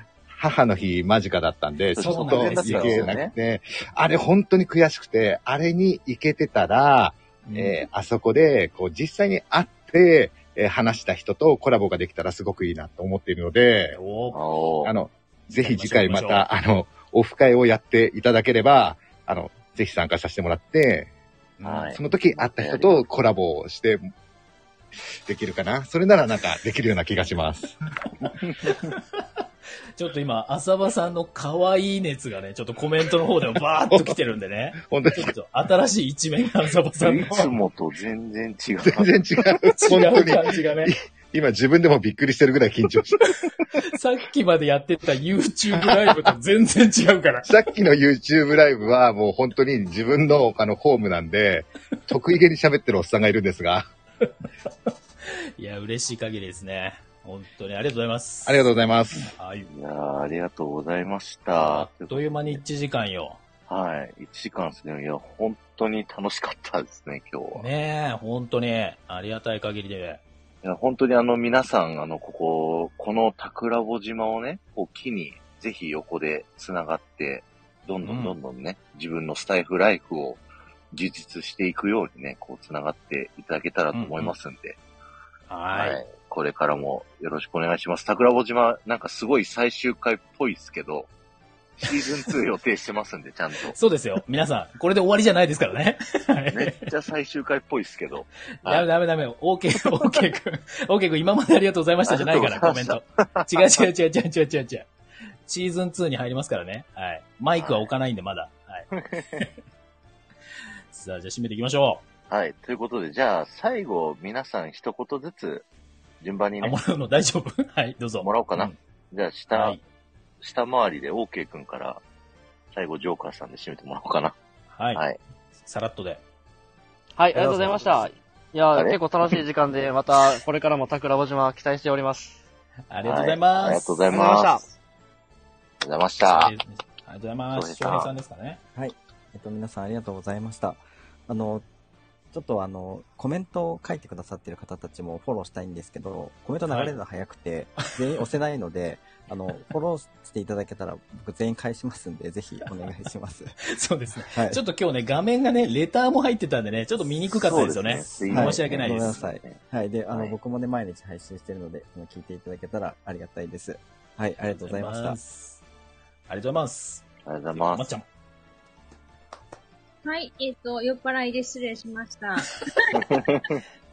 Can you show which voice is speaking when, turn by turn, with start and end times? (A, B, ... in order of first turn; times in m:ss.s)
0:00.3-0:14.0 A
0:01.9-0:03.3 B
0:02.0-0:03.2 C
0:07.5-0:07.8 C
0:13.9-0:14.4 C
0:14.3-0:14.9 B
0:14.8-0:21.1 A
0:15.6-0:16.5 C
0:21.6-0:22.0 C
0:21.6-0:22.0 B
0:21.9-0:24.1 A
0:22.5-0:23.0 B
0:25.2-0:27.8 A
0:30.0-0:37.5 C
0:34.8-0:35.3 A
0:37.0-0:39.2 B
0:38.8-0:43.3 A
0:39.7-0:40.9 C
0:43.9-0:47.5 C
0:47.5-0:53.9 A
0:55.2-0:58.7 C
0:58.5-0:59.3 A
0:59.3-0:59.7 C
0:59.7-1:02.6 B
1:01.6-1:03.4 C
1:03.7-1:07.7 B
1:07.6-1:10.2 C
1:10.6-1:24.8 B
1:18.0-1:18.4 C
1:23.9-1:24.3 C
1:25.5-1:26.0 C
1:25.7-1:31.1 B
1:31.8-1:33.8 B
1:33.7-1:36.9 C
1:36.5-1:38.9 B
1:38.6-1:44.9 C
1:42.1-1:43.8 B
1:45.5-1:49.5 C
1:47.6-1:47.9 B
1:49.0-1:49.4 B
1:50.9-1:52.0 C
1:52.3-1:55.7 B
1:56.2-1:56.8 B
1:56.6-1:58.8 C
1:58.2-1:59.8 B
1:59.5-1:59.8 C
2:00.4-2:02.0 B
2:02.7-2:04.4 B
2:04.7-2:05.0 C
2:05.6-2:06.2 C
2:07.2-2:12.4 D
2:08.7-2:09.4 B
2:12.9-2:14.1 C
2:13.0-2:14.6 B
2:14.1-2:14.6 D
2:15.8-2:16.5 B
2:16.3-2:18.6 C
2:17.5-2:18.1 B
2:18.8-2:21.6 E
2:22.3-2:33.5 E
2:26.7-2:27.0 C
2:33.7-2:39.2 C
2:34.3-2:34.6 E
2:37.3-2:39.6 B
2:38.3-2:45.2 E
2:44.5-2:45.6 C
2:46.3-2:48.0 C
2:47.3-2:47.9 B
2:50.0-2:53.0 F
2:53.2-2:53.4 B